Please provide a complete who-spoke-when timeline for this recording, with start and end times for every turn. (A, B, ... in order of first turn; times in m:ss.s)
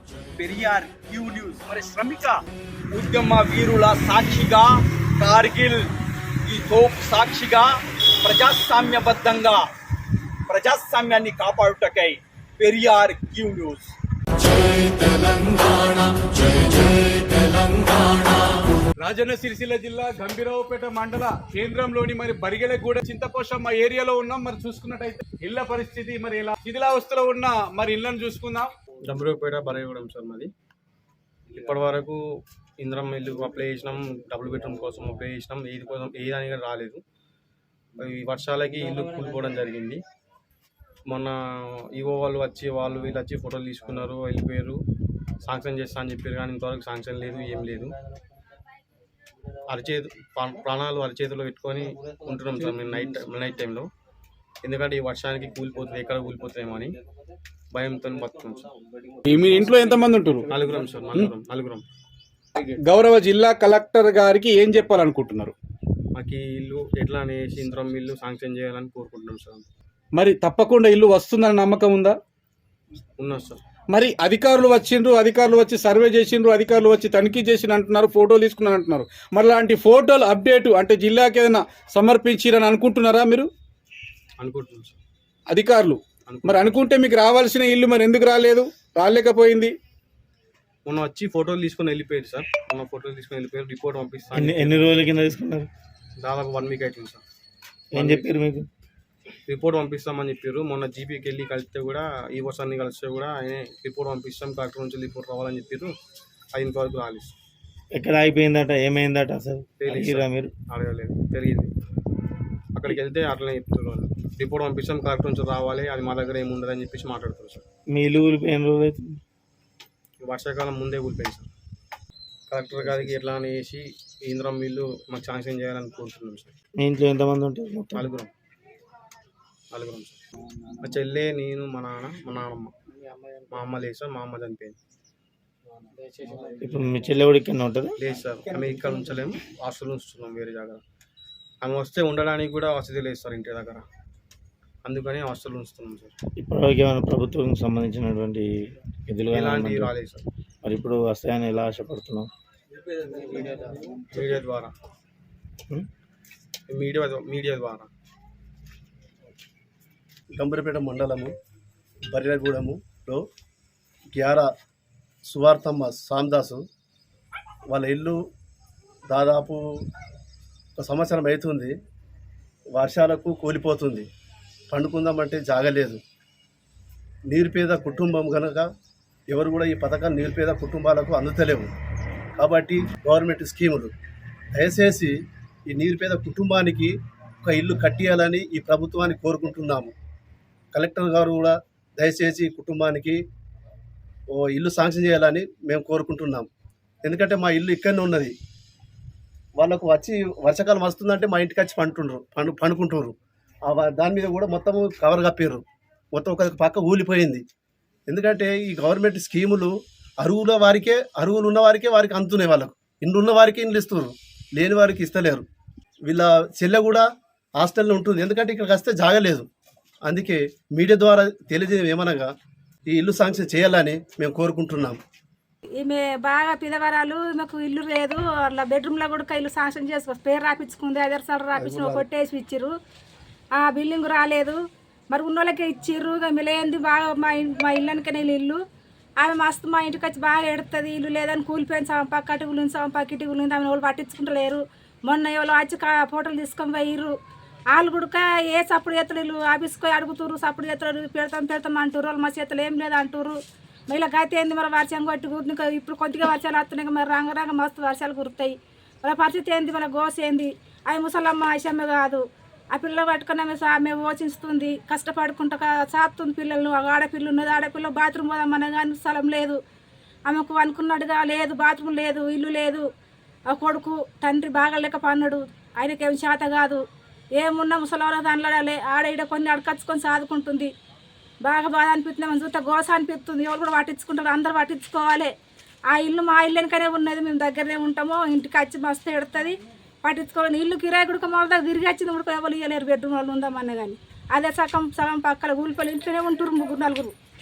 0:00.4-0:05.9 A
0:06.5-0:09.7 A
0:10.5-0:14.0 A
0:15.0-0:16.3 B
0:17.0-0:18.4 B
0:19.0-0:28.7 B
0:29.1-0:30.5 C
0:31.5-0:32.2 C
0:32.8-0:37.0 C
0:38.0-0:40.0 C
0:41.1-0:44.8 C
0:45.4-0:48.0 C
0:49.7-0:53.9 C
0:54.6-0:57.0 C
0:57.7-0:58.7 C
0:59.3-1:00.5 B
1:00.5-1:01.8 C
1:02.6-1:05.6 B
1:06.2-1:09.7 C
1:10.2-1:12.2 B
1:13.2-1:13.6 C
1:13.9-1:23.5 B
1:24.4-1:25.0 C
1:25.5-1:29.8 B
1:26.3-1:26.8 C
1:30.9-1:35.0 C
1:34.3-1:35.7 D
1:36.2-1:37.2 C
1:37.9-1:38.7 D
1:37.9-1:38.3 C
1:39.5-1:46.0 C
1:46.5-1:47.3 C
1:48.0-1:50.5 D
1:49.8-1:51.7 C
1:52.8-1:57.6 C
1:57.9-1:59.0 D
2:00.2-2:01.5 C
2:02.5-2:06.5 C
2:06.8-2:08.1 D
2:07.9-2:08.3 C
2:09.7-2:10.2 C
2:10.8-2:12.7 C
2:13.5-2:14.8 C
2:16.6-2:17.9 D
2:18.0-2:20.8 C
2:21.6-2:23.8 C
2:24.8-2:26.2 C
2:26.4-2:28.5 D
2:29.1-2:29.9 D
2:29.3-2:30.2 C
2:30.6-2:32.3 D
2:34.1-2:34.7 C
2:36.7-2:37.9 C
2:40.3-2:41.3 E
2:42.1-2:43.2 E
2:44.1-2:44.5 E
2:45.3-2:46.6 E
2:47.7-2:48.2 E
2:49.1-2:49.6 E
2:50.8-2:51.7 E
2:52.8-2:54.1 E
2:54.7-2:56.0 E
2:57.3-2:58.7 E
2:59.3-3:01.7 E
3:02.4-3:03.9 E
3:04.5-3:05.2 E
3:05.7-3:09.9 E
3:10.7-3:13.2 E
3:14.3-3:16.5 E
3:17.0-3:18.4 E
3:19.6-3:23.2 E
3:23.7-3:25.6 E
3:26.2-3:27.4 E
3:28.1-3:35.5 E
3:36.1-3:37.1 E
3:37.6-3:39.5 E
3:40.0-3:42.3 E
3:42.9-3:45.0 E
3:45.8-3:52.7 F
3:51.6-3:52.0 E
3:53.6-3:54.6 F
3:55.1-3:58.6 F
3:59.2-4:07.2 F
4:07.7-4:13.4 F
4:13.9-4:29.6 F
4:30.3-4:32.8 F
4:33.5-4:36.8 F
4:37.4-4:40.7 F
4:41.4-4:45.3 F
4:45.9-4:57.2 F